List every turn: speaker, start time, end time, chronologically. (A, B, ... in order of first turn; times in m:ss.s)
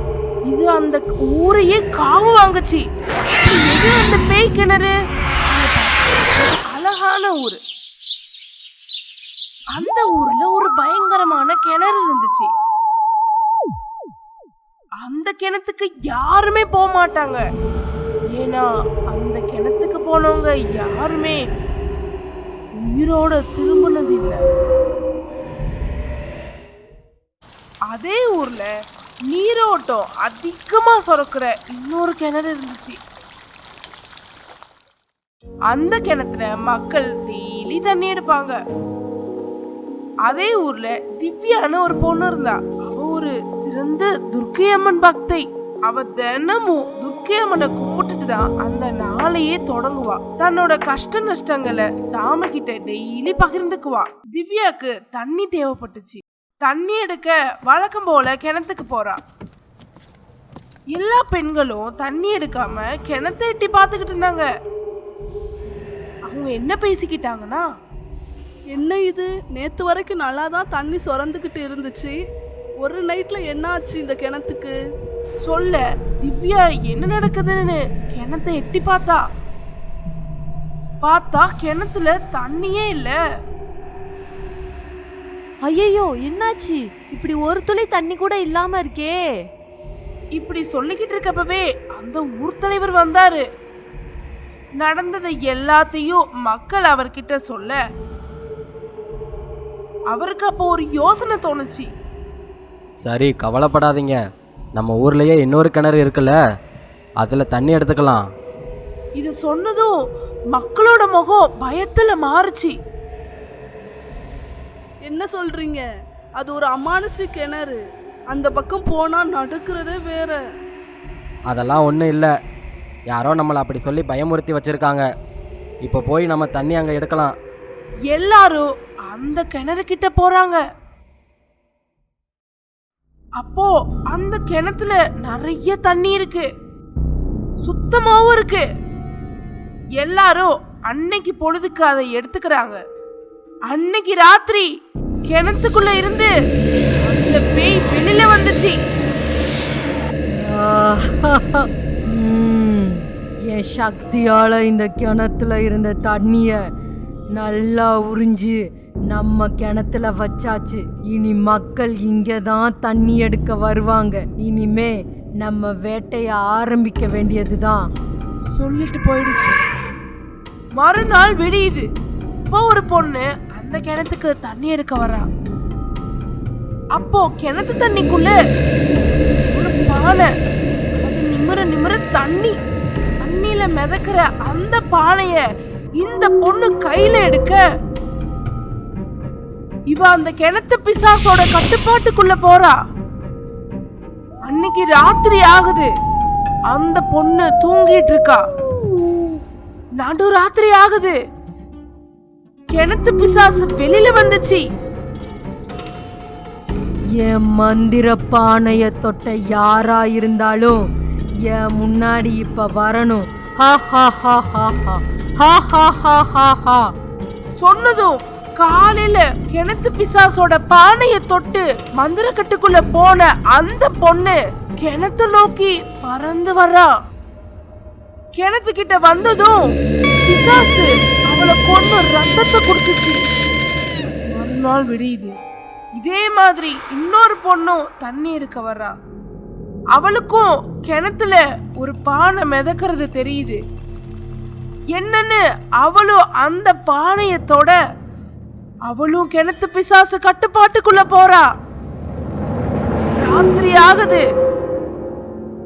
0:00.5-0:02.8 A
0:03.4-0:04.9 A
0:05.5-0:07.6 A
0:09.8-0:12.5 A
0:15.0-0:17.4 A
0:18.4-0:21.4 A
0:22.8-0:24.4 A
0:27.9-0:28.7 A
0:29.3-0:33.0 A
0:35.7-0:38.6 A
0:40.3-0:59.2 A
1:01.0-1:04.5 A
1:06.3-1:07.7 A
1:08.8-1:12.1 B
1:12.8-1:14.7 B
1:15.4-1:19.2 A
1:21.0-1:23.2 A
1:25.6-1:29.2 C
1:30.4-1:33.4 A
1:34.8-1:37.8 A
1:40.1-1:41.9 A
1:43.0-1:44.2 D
1:44.8-1:46.4 D
1:47.2-1:48.2 D
1:49.2-1:49.9 A
1:50.5-1:52.7 A
1:55.1-1:55.9 B
1:56.4-1:57.8 B
1:58.3-2:00.4 B
2:01.5-2:02.3 D
2:03.1-2:05.0 D
2:05.8-2:07.3 D
2:08.1-2:10.6 A
2:13.4-2:16.5 A
2:17.6-2:18.6 A
2:20.0-2:22.8 A
2:23.7-2:24.7 A
2:25.3-2:26.3 A
2:27.0-2:28.8 A
2:30.4-2:36.6 E
2:37.4-2:38.6 E
2:39.1-2:47.9 E
2:48.6-2:49.6 A
2:50.8-2:51.8 A
2:52.5-2:55.3 A
2:57.0-2:58.4 A
2:59.5-3:00.3 A
3:01.0-3:02.6 A
3:03.2-3:05.4 A
3:06.0-3:07.6 A
3:09.9-3:12.7 A
3:14.5-3:15.9 A
3:16.7-3:18.4 A
3:20.0-3:21.2 A
3:22.8-3:24.6 A
3:27.2-3:30.8 E
3:31.5-3:36.8 E
3:37.6-3:46.9 A
3:48.4-3:49.6 A
3:50.3-3:53.2 A
3:54.3-3:55.4 A
3:56.0-3:58.9 A
4:00.0-4:03.6 A
4:05.0-4:07.8 A
4:08.9-4:11.4 A
4:13.2-4:14.2 A